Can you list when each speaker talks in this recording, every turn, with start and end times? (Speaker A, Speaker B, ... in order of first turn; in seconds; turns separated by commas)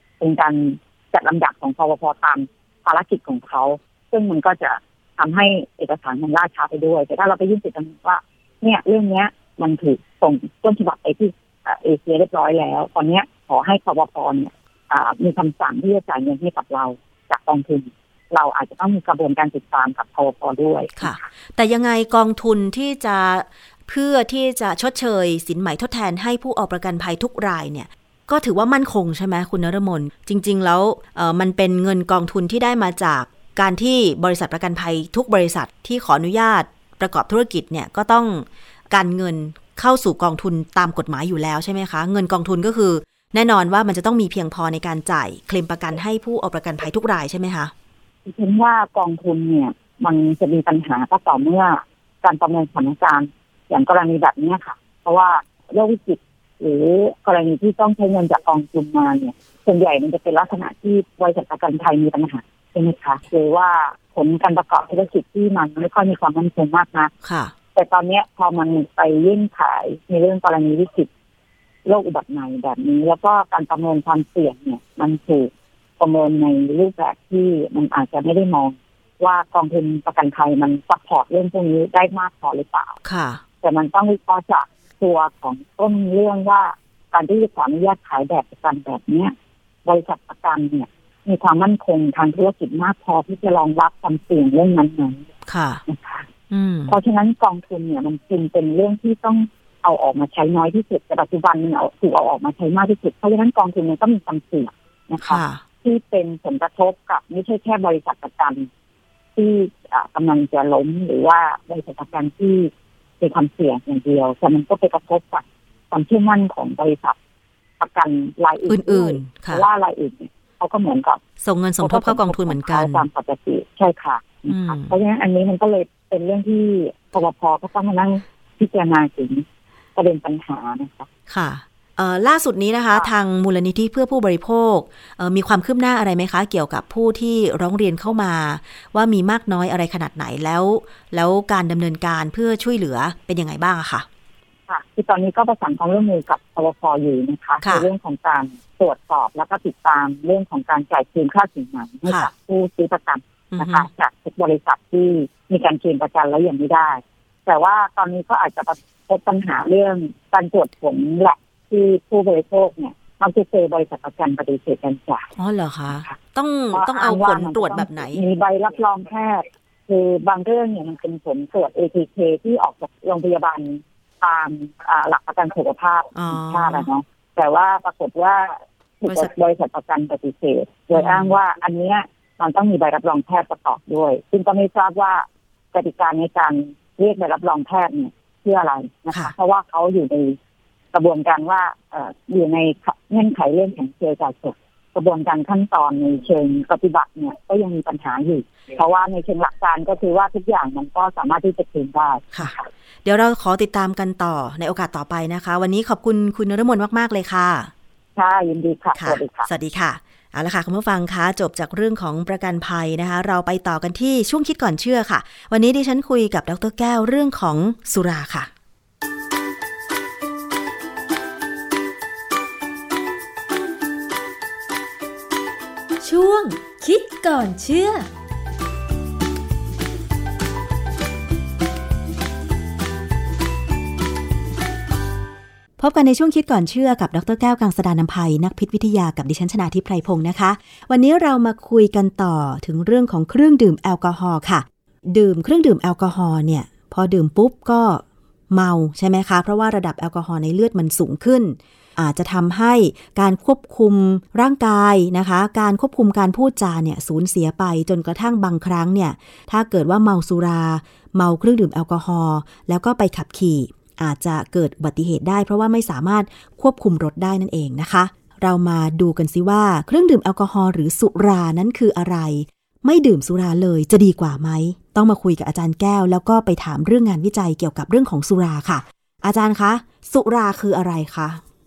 Speaker A: 0.2-21.2, Speaker B: 21.0-47.7, Speaker A: 48.2-67.1, Speaker B: 67.2-67.5, Speaker A: 67.7-71.1, Speaker A: 71.9-83.0, Speaker B: 83.0-83.4, Speaker A: 83.6-89.3, Speaker A: 89.8-95.2, Speaker B: 95.5-95.8, Speaker A: 95.9-96.3, Speaker B: 96.5-97.0, Speaker A: 96.9-108.7, Speaker B: 105.2-105.6, Speaker A: 109.4-117.2, Speaker A: 117.8-121.2, Speaker B: 118.7-119.6, Speaker B: 121.4-123.1, Speaker A: 121.8-129.4, Speaker B: 124.5-124.9, Speaker A: 129.9-131.1, Speaker B: 131.3-144.1, Speaker A: 144.7-165.3, Speaker B: 147.6-147.9, Speaker B: 153.5-153.9, Speaker B: 165.4-168.2, Speaker A: 165.9-166.2, Speaker A: 166.7-190.4, Speaker B: 176.1-176.9, Speaker B: 179.1-179.3, Speaker B: 180.9-181.4, Speaker A: 190.9-202.7, Speaker B: 203.0-207.7, Speaker A: 208.2-209.5, Speaker B: 208.9-218.5, Speaker C: 226.0-228.1, Speaker B: 235.8-281.4